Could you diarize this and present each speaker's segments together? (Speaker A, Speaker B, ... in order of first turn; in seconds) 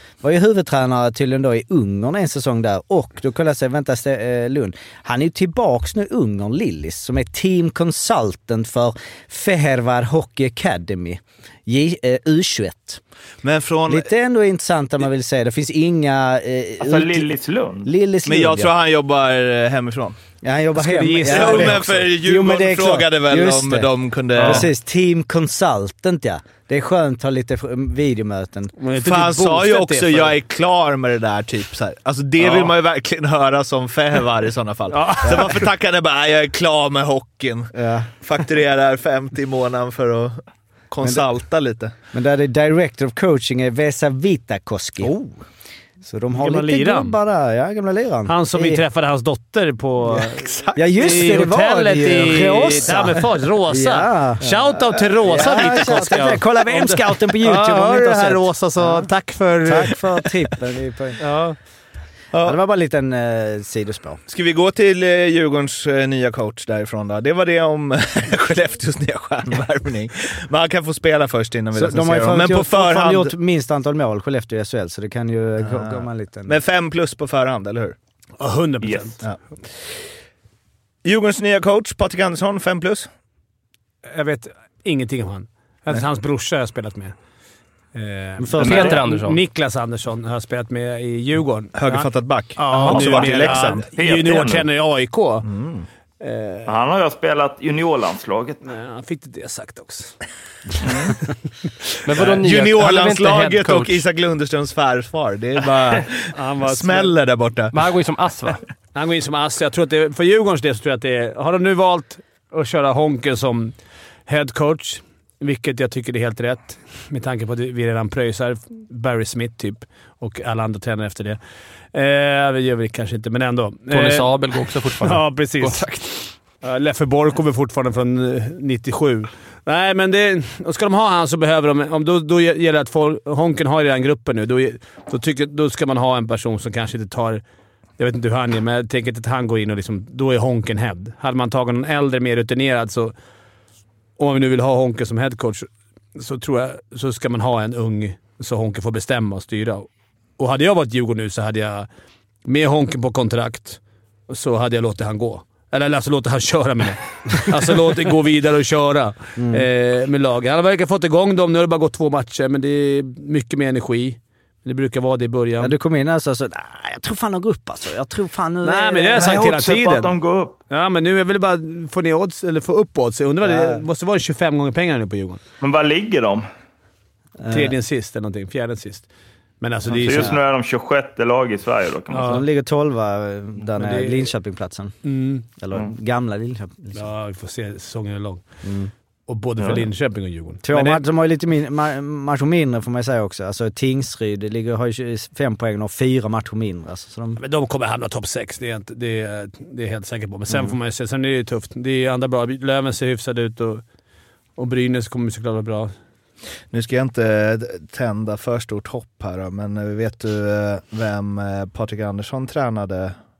Speaker A: 0.2-13.0, 13.9-17.3, 17.8-18.7, 20.4-28.7, 37.7-38.1, 42.1-45.1, 46.0-48.8, 50.8-54.4, 55.2-59.1, 59.6-61.2, 62.4-64.2, 71.7-76.6, 88.4-89.0, 159.4-159.7, 165.6-169.4, 173.4-173.8, 177.4-177.7, 182.2-184.9, 185.5-187.1, 188.6-188.9, 190.6-197.4
Speaker B: 13.4-14.1, 18.2-20.2, 21.2-24.7, 29.0-41.9, 45.1-45.3, 50.4-50.8, 54.4-55.8, 62.3-62.6, 64.3-73.3, 75.6-78.0, 81.0-83.1, 91.7-93.8, 95.4-95.9, 102.2-107.7, 206.7-213.2
Speaker C: 16.8-17.9, 78.8-79.1, 92.7-94.7, 96.7-98.6, 169.1-170.6, 175.6-176.4, 179.9-182.4
Speaker D: 20.8-22.0, 28.8-30.4, 34.9-35.6, 46.4-47.2, 48.3-60.0, 61.2-61.5, 78.4-79.2, 84.1-87.1, 87.9-95.5, 96.2-96.7, 98.6-100.1, 106.3-107.1, 108.9-113.7, 114.3-121.4, 121.9-125.8, 126.6-137.4, 138.0-143.1, 144.2-151.9, 152.4-165.8, 168.6-170.1, 170.7-175.4, 177.5-179.1, 179.6-180.4, 182.1-182.4, 183.8-184.3, 185.0-185.4, 186.9-188.4, 189.3-191.0, 197.4-203.8, 204.6-205.9
Speaker E: 88.6-89.4, 102.0-104.0, 107.7-108.6, 123.9-126.2